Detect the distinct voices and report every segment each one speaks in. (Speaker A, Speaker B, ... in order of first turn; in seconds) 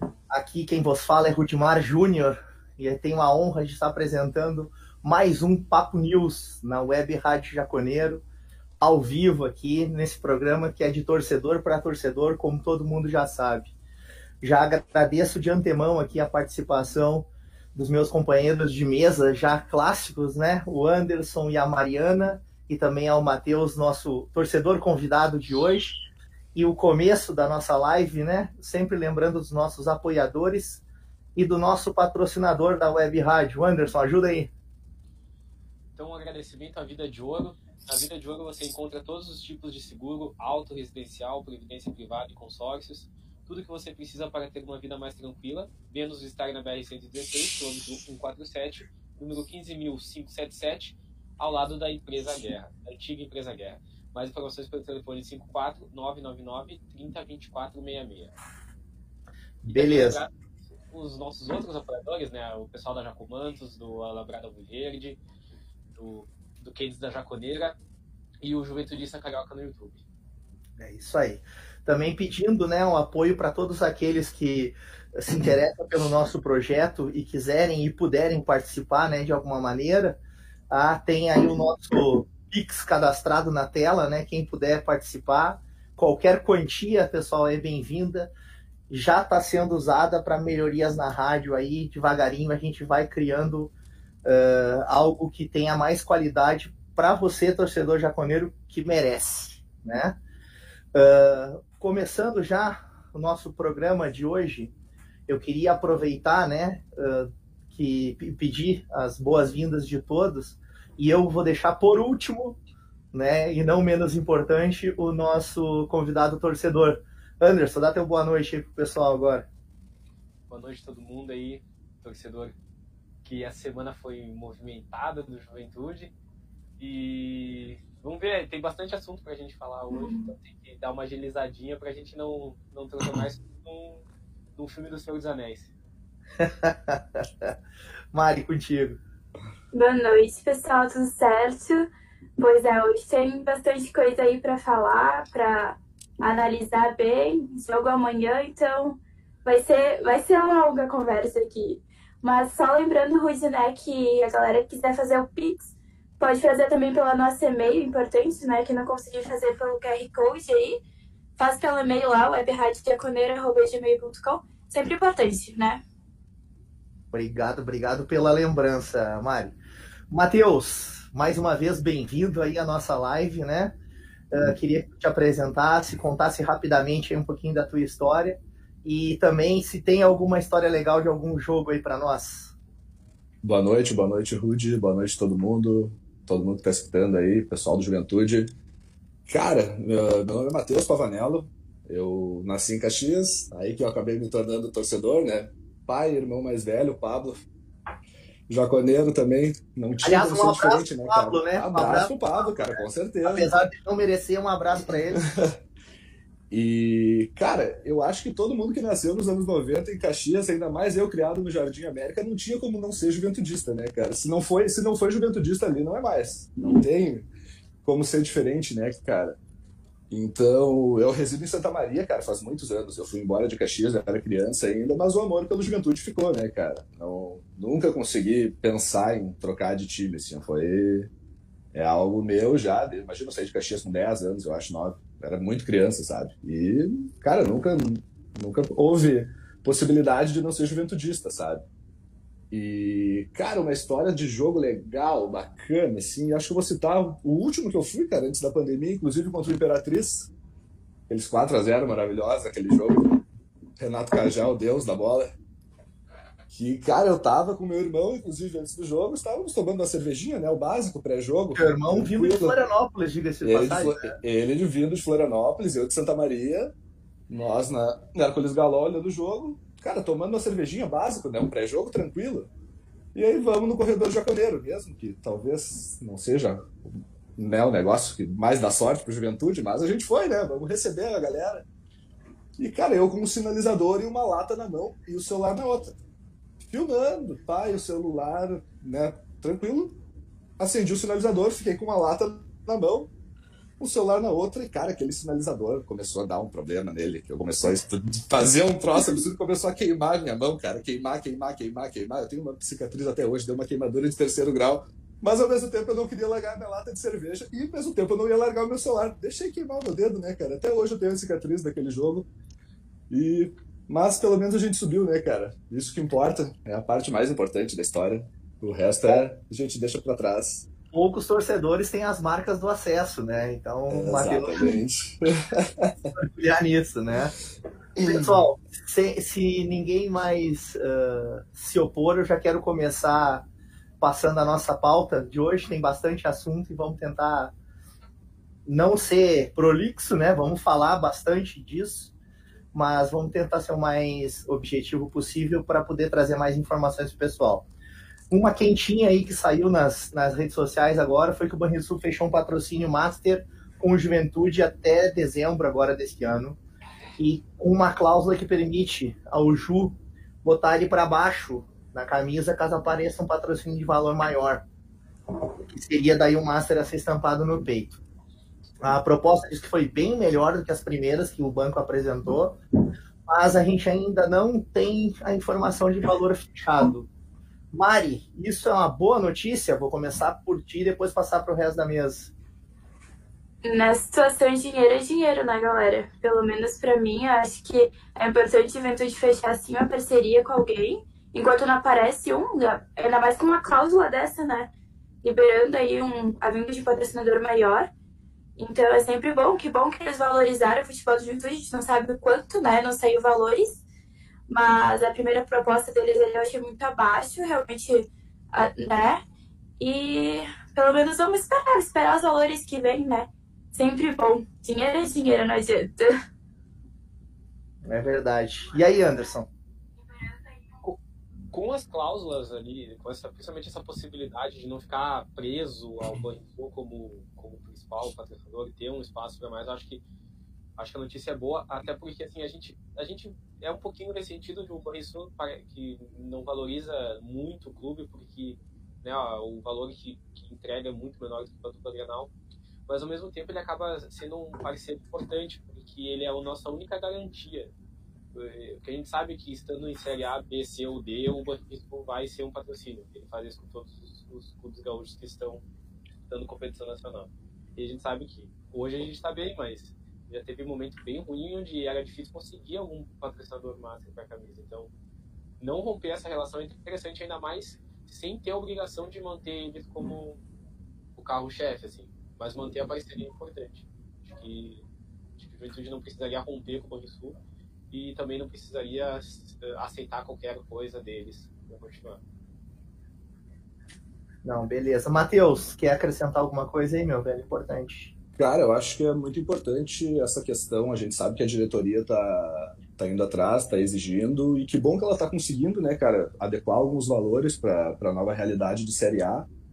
Speaker A: 0.3-8.2, 8.8-13.7, 14.4-26.0, 26.6-30.8, 31.4-34.5, 59.6-60.2, 70.8-80.2, 80.7-88.3, 88.9-93.7, 94.2-100.1, 100.9-104.7, 105.3-112.6, 113.1-119.5, 136.4-137.5, 138.1-139.0, 167.1-169.6, 170.1-173.8, 174.3-182.5, 200.0-205.3, 261.6-264.2, 320.9-324.8, 326.2-327.4, 328.0-333.5, 334.0-337.5, 338.7-342.1, 342.7-347.7, 348.3-356.6, 357.2-364.6, 365.6-368.0, 368.8-372.6, 373.3-377.1, 377.7-382.3, 417.9-419.5, 484.4-488.1
Speaker B: 36.0-58.3, 59.7-60.3, 60.9-65.2, 65.9-67.8, 68.4-70.0, 120.5-122.5, 123.2-126.1, 126.8-134.0, 134.6-135.7, 421.5-430.0, 430.8-442.3, 442.9-447.7, 448.3-455.6, 456.3-464.9, 465.6-470.4, 471.2-474.8, 475.4-477.4, 477.9-482.2
Speaker C: 129.9-130.3, 139.7-160.8, 161.4-165.8, 383.6-394.7, 395.2-397.9, 398.6-403.8, 404.5-409.2, 409.8-416.1
Speaker D: 183.4-188.5, 189.3-197.4, 198.5-203.5, 206.5-217.3, 217.8-219.4, 220.1-231.1, 231.7-241.6, 242.5-250.3, 251.1-253.2, 253.8-255.3, 256.5-262.6, 263.4-266.7, 267.3-272.5, 273.1-276.7, 277.4-281.6, 282.6-285.9, 286.7-290.0, 290.6-293.1, 293.8-312.3, 313.1-320.7, 323.9-326.1, 488.4-499.5